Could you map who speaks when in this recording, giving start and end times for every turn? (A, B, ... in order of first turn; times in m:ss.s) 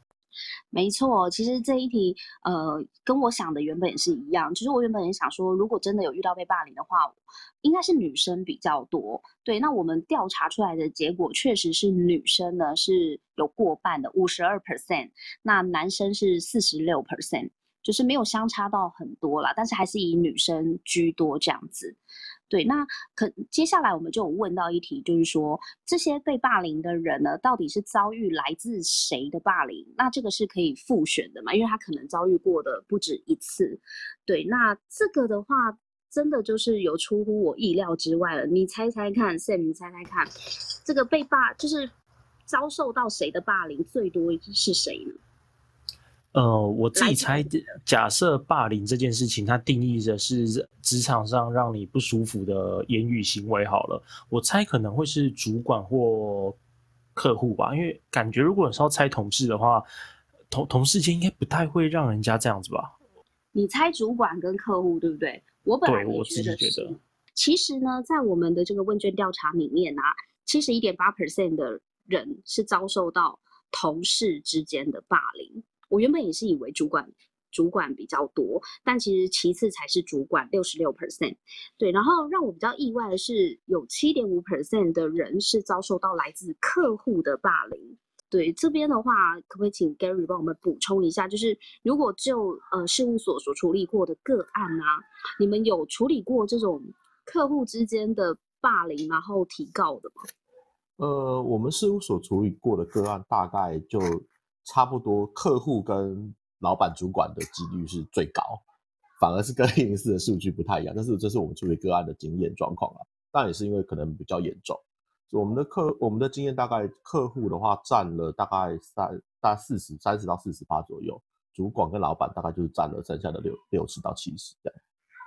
0:00.7-0:22.0 A
0:22.5-0:40.3 A
0:40.8-0:41.9 A
0:42.5-0:45.2 A
0:46.3-0:56.6 B
0:46.9-0:47.5 A
0:57.1-0:59.8 B
1:00.5-1:02.9 B
1:03.5-1:40.2 A
1:05.8-1:07.0 B
1:41.0-1:48.6 C
1:49.2-2:04.7 C